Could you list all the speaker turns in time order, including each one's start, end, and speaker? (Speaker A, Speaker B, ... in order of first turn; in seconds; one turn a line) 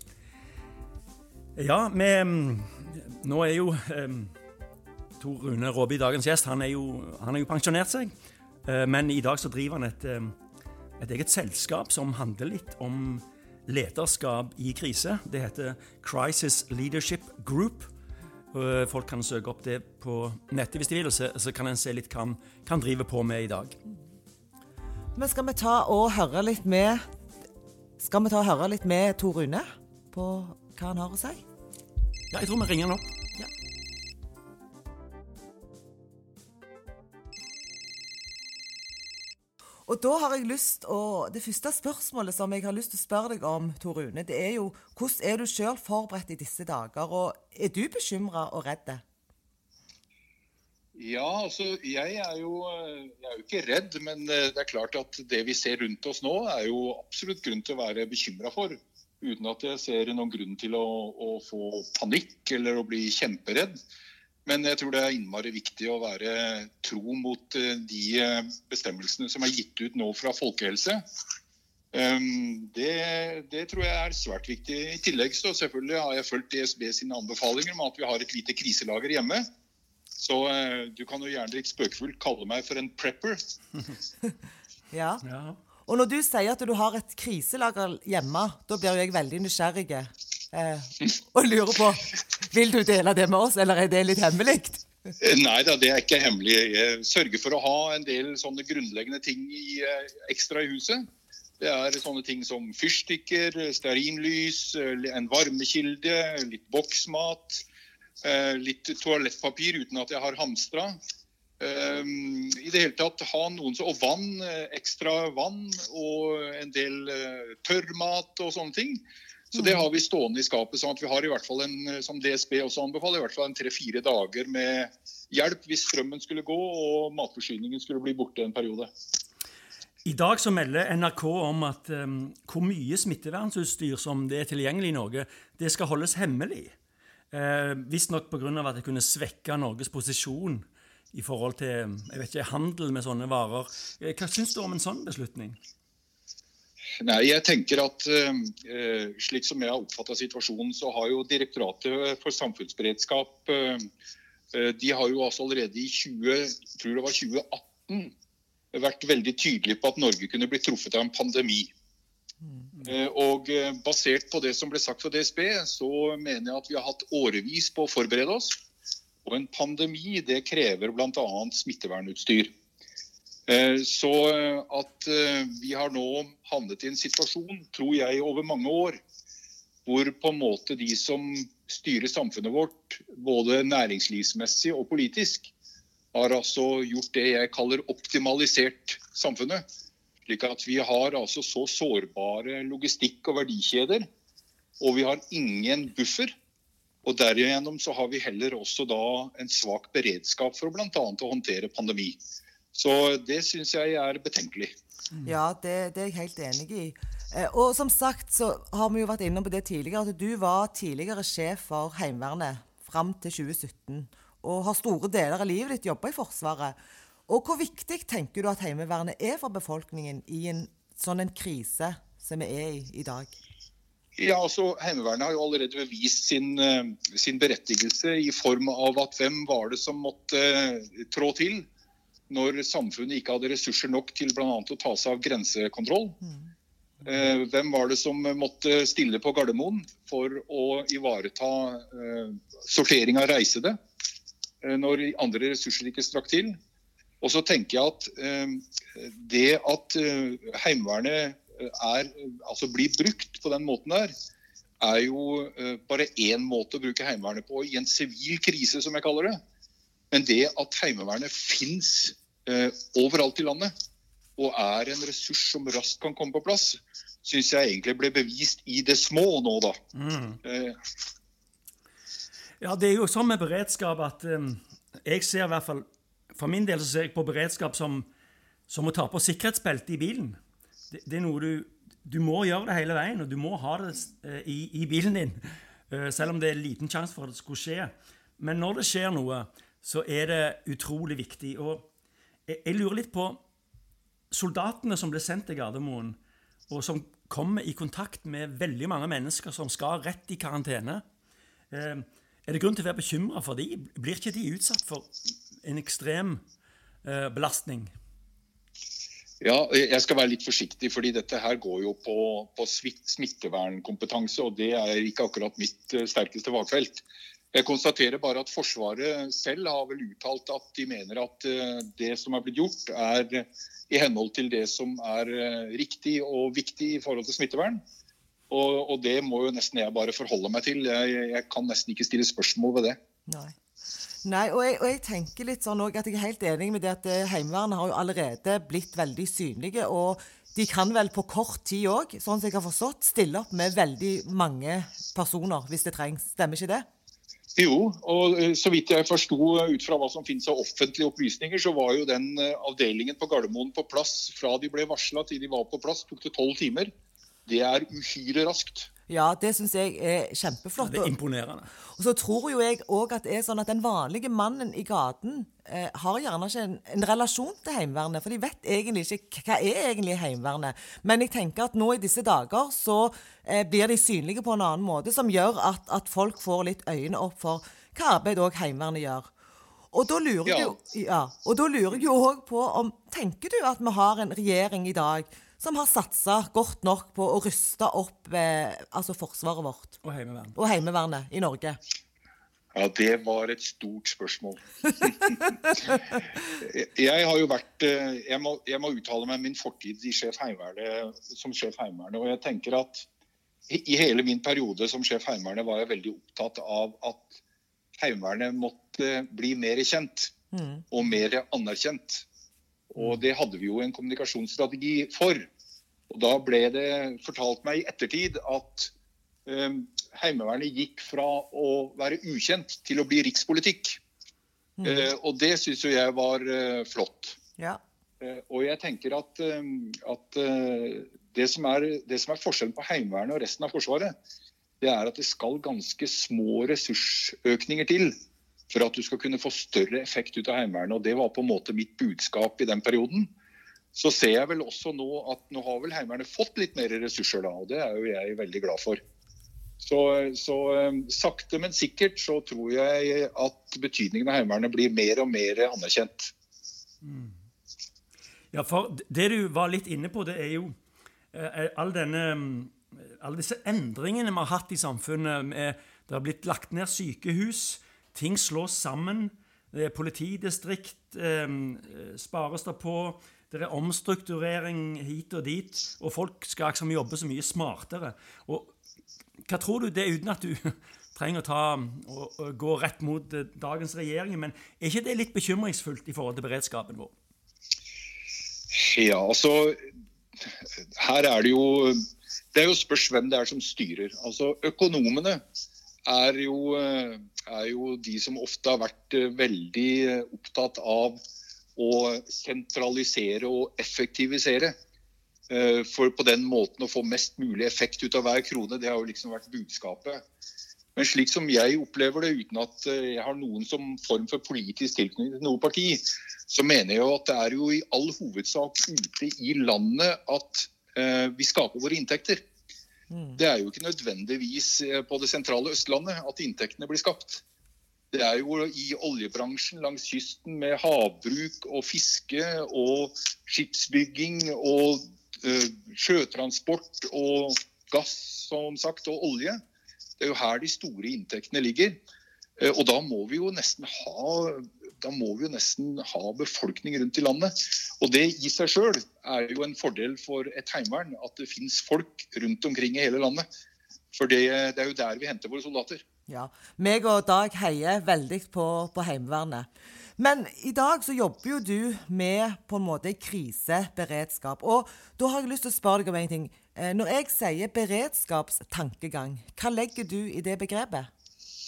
Speaker A: 1.6-4.3
Speaker A: 5.2-8.1
Speaker A: 8.6-10.3
Speaker A: 11.0-17.9
Speaker A: 18.5-23.8
Speaker B: 25.1-27.0
Speaker B: 28.0-31.4
Speaker A: 32.3-33.5
Speaker B: 39.9-49.0
Speaker C: 50.9-63.7
Speaker C: 64.5-71.0
Speaker C: 71.9-79.4
Speaker C: 80.2-83.4
Speaker B: 84.9-85.2
Speaker A: 85.2-85.6
Speaker B: 85.8-94.9
Speaker C: 95.2-101.0
Speaker C: 101.6-107.6
Speaker C: 108.2-111.0
Speaker C: 111.6-119.0
Speaker C: 119.5-128.9
Speaker A: 130.0-136.7
Speaker A: 137.3-145.6
Speaker C: 147.0-153.9
Speaker C: 154.5-158.1
Speaker C: 158.7-161.7
Speaker C: 162.8-168.6
Speaker C: 169.2-172.5
Speaker C: 173.5-179.0
Speaker C: 179.8-185.5
Speaker C: 186.1-189.6
Speaker C: 190.2-194.1
Speaker C: 194.8-196.3
Speaker C: 197.0-202.2
Speaker C: 202.7-204.7
Speaker B: 205.2-216.8
Speaker B: 217.3-223.3
Speaker C: 224.2-231.7
Speaker C: 232.3-236.2
Speaker C: 237.0-243.8
Speaker C: 244.6-246.6
Speaker C: 247.2-254.1
Speaker C: 254.8-259.4
Speaker C: 260.1-263.7
Speaker C: 264.4-269.8
Speaker A: 269.9-270.4
Speaker C: 270.4-270.8
Speaker A: 272.6-278.1
Speaker A: 278.7-280.4
Speaker A: 280.9-291.9
Speaker A: 292.5-293.4
Speaker A: 294.3-296.2
Speaker A: 296.7-301.0
Speaker A: 301.7-306.4
Speaker A: 307.0-307.9
Speaker C: 309.4-327.8
Speaker C: 328.5-333.0
Speaker B: 333.3-333.6
Speaker B: 334.2-346.9
Speaker C: 347.6-356.9
Speaker C: 357.4-358.9
Speaker B: 359.1-361.1
Speaker A: 360.8-361.7
Speaker B: 361.9-379.3
Speaker B: 379.9-390.0
Speaker C: 380.4-380.8
Speaker A: 390.0-390.5
Speaker B: 390.5-391.8
Speaker C: 392.7-403.1
Speaker C: 403.7-407.4
Speaker C: 407.9-410.3
Speaker B: 410.5-410.8
Speaker C: 410.9-412.2
Speaker C: 412.9-415.5
Speaker C: 416.1-418.9
Speaker C: 419.4-424.0
Speaker B: 424.8-425.1
Speaker C: 424.8-427.4
Speaker C: 428.2-434.1
Speaker C: 434.8-438.1
Speaker C: 438.7-443.3
Speaker C: 443.9-449.0
Speaker C: 449.8-456.3
Speaker A: 457.0-457.4
Speaker A: 458.5-460.7
Speaker A: 461.3-478.7
Speaker A: 479.4-487.1
Speaker C: 488.7-489.9
Speaker C: 490.4-492.0
Speaker C: 492.5-495.4
Speaker C: 496.1-501.2
Speaker C: 501.8-504.7
Speaker C: 505.5-510.2
Speaker C: 510.9-522.4
Speaker B: 523.1-523.4
Speaker C: 523.4-527.4
Speaker C: 528.1-539.6
Speaker C: 540.2-542.0
Speaker C: 542.6-553.5
Speaker C: 554.1-556.0
Speaker B: 556.3-571.1